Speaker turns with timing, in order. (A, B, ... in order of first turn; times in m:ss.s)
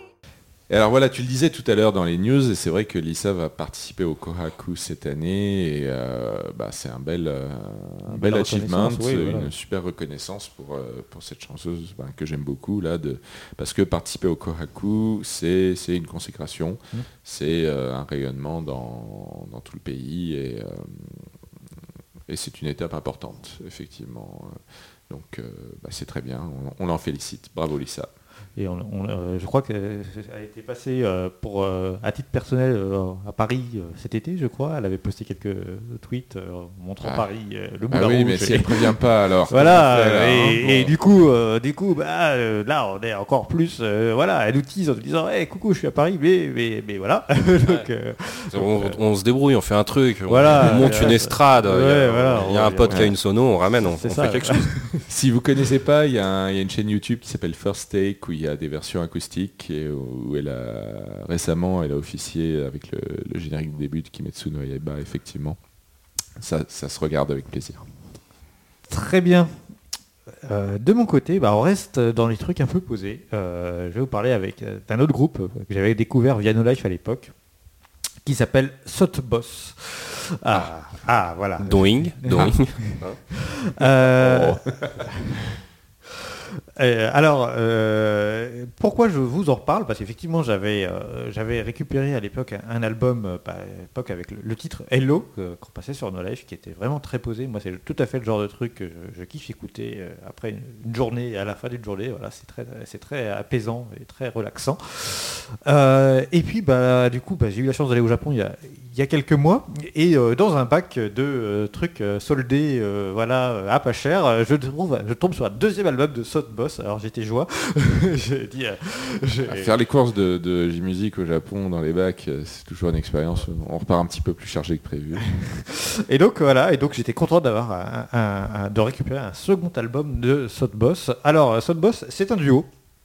0:00.7-0:21.3 A
0:08.1-0:09.5 B
0:22.3-0:28.1 A
0:28.6-0:39.0 B
0:37.9-0:40.9 A
0:39.5-0:48.9 B
0:48.5-0:54.7 C
0:50.3-0:53.1 B
0:54.0-0:55.0 B
0:55.1-1:05.6 A
1:06.4-1:07.8 A
1:08.9-1:09.5 B
1:10.4-1:17.3 B
1:18.2-1:25.6 B
1:21.6-1:23.2 C
1:24.2-1:25.1 A
1:26.1-1:59.7 B
1:59.5-2:05.3 A
2:05.3-2:12.7 B